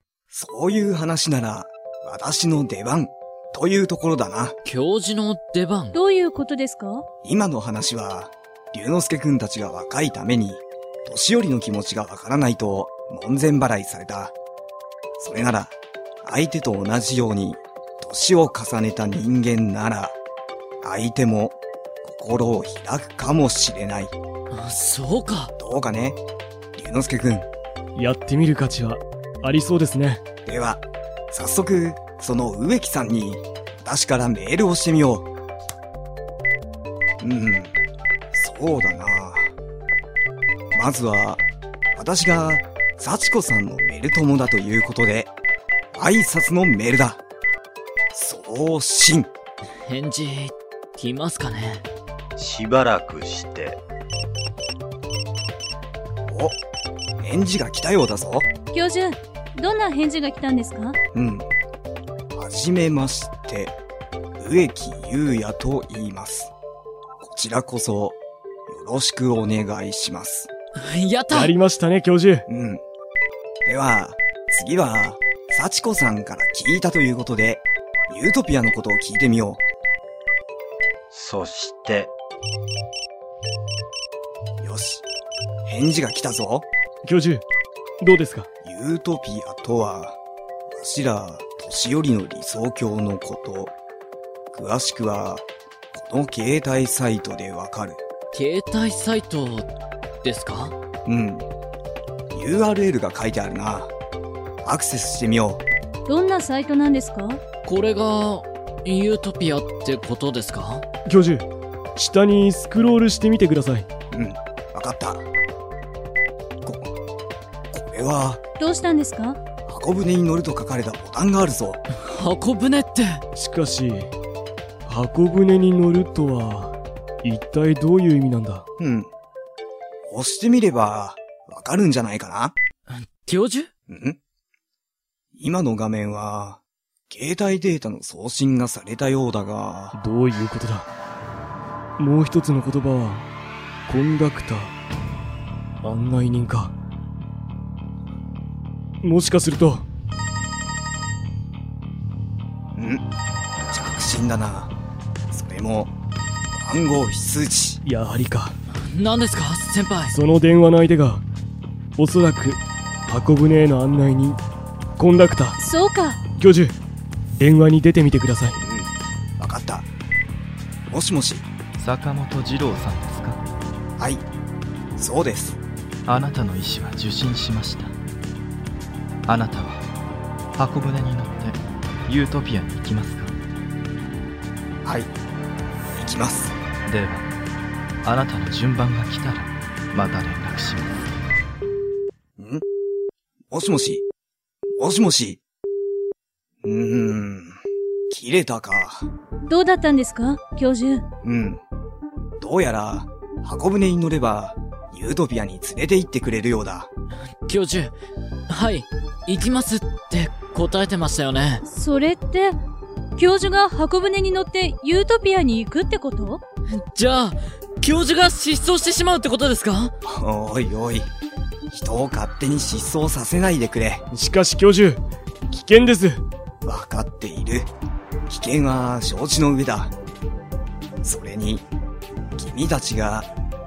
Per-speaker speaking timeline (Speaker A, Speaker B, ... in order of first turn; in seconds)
Speaker A: 0.3-4.5, 7.2-14.3, 15.2-20.2, 20.8-24.2, 25.6-26.2, 26.8-27.5, 30.4-35.3, 37.2-37.8, 38.3-39.5, 40.7-41.4, 42.0-45.3, 45.9-47.2, 48.1-49.3, 56.3-56.6, 57.2-58.5, 61.1-61.5, 62.4-63.8, 64.4-66.5, 67.2-70.5, 72.5-72.8, 73.7-79.6, 84.6-85.0, 85.7-86.7, 88.6-90.2, 90.7-93.8, 94.5-98.0, 101.0-101.5, 102.3-103.9, 104.6-105.6, 114.1-115.2, 116.6-116.9, 117.7-118.4, 119.7-121.8, 128.8-129.1, 130.1-132.6, 133.9-134.2, 135.3-140.0, 152.8-153.0, 153.7-154.7, 155.3-155.9, 156.5-157.8, 168.6-169.9, 170.9-171.5, 174.0-174.2, 175.0-175.6, 184.8-185.1, 185.9-186.6, 192.4-192.6, 193.5-194.1, 194.8-195.4, 196.6-199.1, 201.2-201.6, 202.4-206.9, 220.1-221.1, 221.7-224.1, 226.6-227.7, 228.3-229.9, 231.0-231.7, 232.4-233.3
Speaker B: 4.6-6.0, 24.5-25.5, 49.9-51.9, 70.8-71.5, 98.3-99.7, 100.2-100.8, 107.6-110.8, 121.9-123.2, 132.9-133.7, 158.7-160.1, 207.4-207.9, 208.5-211.6, 216.7-219.9
Speaker C: 5.9-7.1, 58.7-61.0, 106.1-107.4, 118.6-119.4, 165.6-166.2, 199.5-201.0, 211.6-212.6, 213.2-216.4
Speaker D: 28.0-30.2, 71.3-72.5, 87.0-87.4, 88.0-88.5, 111.1-113.9, 123.3-124.1, 124.9-128.7, 140.0-140.9, 142.0-143.3, 143.9-144.7, 145.8-146.7, 149.0-149.9, 157.8-158.6, 160.1-161.2, 162.0-164.4, 165.0-165.6, 166.4-166.8, 167.4-168.6, 224.1-226.2
Speaker E: 52.4-53.8, 81.1-82.1
Speaker F: 171.8-173.4, 176.1-177.9, 179.3-179.8, 180.6-183.4, 186.9-187.3, 188.0-191.0